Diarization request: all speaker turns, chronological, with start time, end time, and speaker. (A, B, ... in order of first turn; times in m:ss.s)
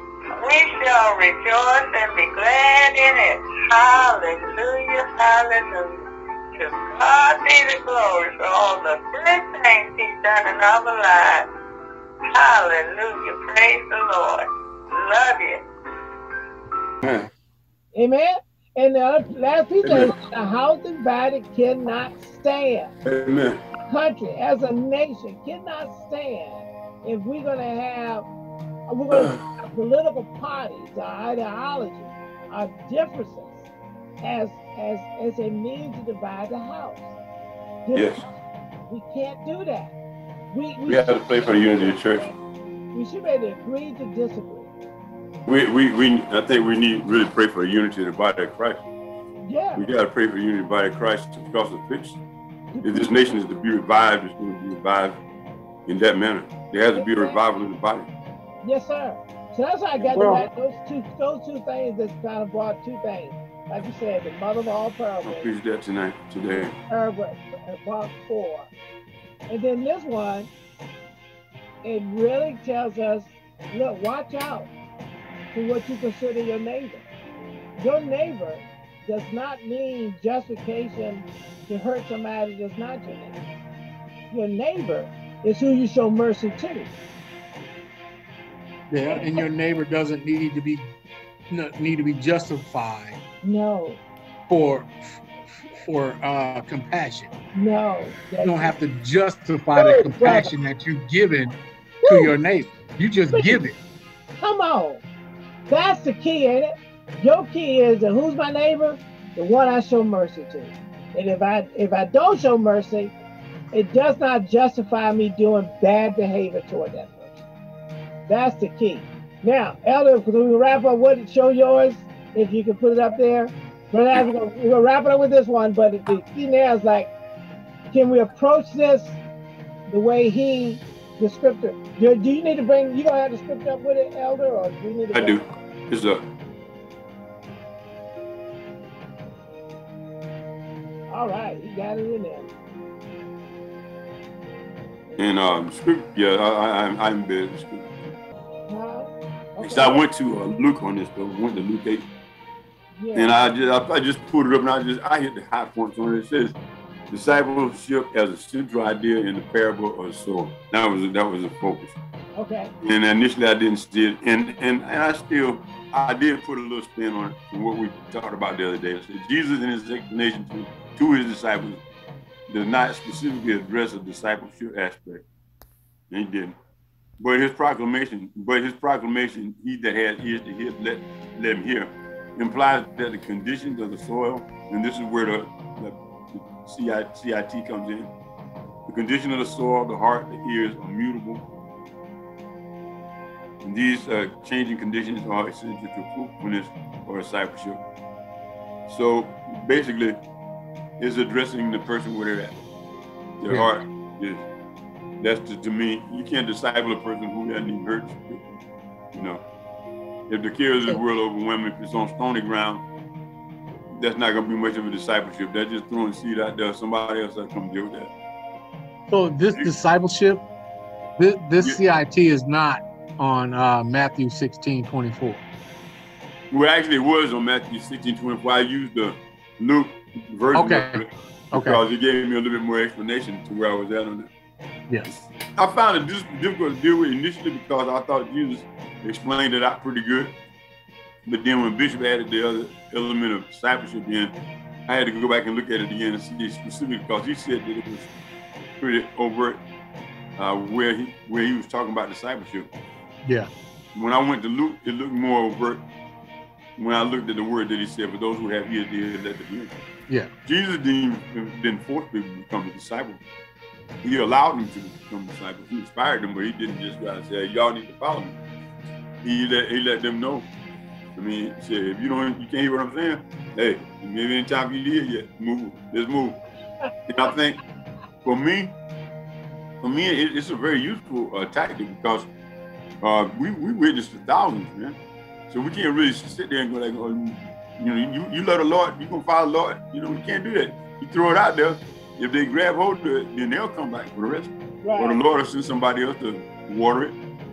0:00.4-0:06.0 A
0:06.6-0:11.5 A
0:12.3-0:15.6 A
0:17.0-0:17.3 B
0:17.9-0:22.9 C
0:19.8-0:20.1 B
0:23.1-0:23.6 B
0:23.9-0:28.3 C
0:28.9-0:33.7 C
0:29.1-0:29.4 B
0:34.2-0:37.1 C
0:37.8-0:38.2 C
0:37.9-0:38.2 B
0:38.9-0:39.9 C
0:40.5-0:42.4 C
0:40.9-0:42.3 B
0:42.9-0:44.7 C
0:45.5-0:48.8 B
0:49.4-0:49.9 C
0:49.8-0:52.2 B
0:52.7-0:53.4 C
0:52.8-0:55.2 B
0:55.9-0:58.1 B
0:56.9-0:57.4 C
0:58.6-1:05.5 C
1:00.0-1:00.3 B
1:00.2-1:00.4 D
1:05.2-1:06.7 B
1:06.6-1:08.7 C
1:09.5-1:10.5 C
1:11.8-1:14.7 C
1:15.5-1:17.0 C
1:17.8-1:23.4 C
1:24.3-1:26.9 C
1:28.9-1:30.8 D
1:29.0-1:29.4 C
1:31.5-1:33.2 D
1:33.4-1:34.0 C
1:34.5-1:37.3 D
1:37.5-1:38.8 C
1:38.4-1:41.6 D
1:39.8-1:40.5 C
1:42.0-1:42.4 C
1:42.1-1:43.8 D
1:43.3-1:43.6 C
1:44.4-1:45.0 C
1:45.7-1:53.1 C
1:53.7-1:57.4 C
1:58.3-2:07.1 C
2:07.9-2:09.2 C
2:09.9-2:15.4 C
2:15.1-2:16.2 B
2:21.1-2:22.5 C
2:25.1-2:25.4 C
2:25.2-2:28.1 B
2:28.7-2:30.0 C
2:29.6-2:32.1 B
2:33.0-2:33.4 C
2:33.1-2:36.6 B
2:37.1-2:42.0 B
2:42.4-2:42.7 C
2:42.8-2:51.8 B
2:52.5-2:55.2 B
2:56.1-2:56.6 B
2:57.2-3:08.1 B
3:08.9-3:11.4 B
3:13.6-3:17.8 B
3:18.9-3:20.2 B
3:21.0-3:22.6 B
3:23.4-3:24.5 B
3:25.2-3:28.6 B
3:29.1-3:29.4 B
3:30.3-3:32.8 B
3:33.9-3:38.1 B
3:39.1-3:40.4 D
3:41.2-3:45.4 D
3:46.5-3:54.3 B
3:50.5-3:51.8 D
3:54.9-3:55.3 D
3:55.6-4:00.4 B
4:01.3-4:04.3 B
4:04.9-4:08.1 B
4:08.8-4:09.6 B
4:10.4-4:12.7 B
4:13.2-4:13.5 D
4:14.0-4:15.8 B
4:16.8-4:19.7 B
4:20.4-4:23.2 B
4:24.0-4:28.4 B
4:29.2-4:30.5 B
4:31.2-4:36.4 B
4:36.8-4:37.3 C
4:37.1-4:37.6 B
4:38.2-4:38.8 B
4:39.8-4:42.3 B
4:43.0-4:57.2 B
4:54.8-4:55.2 C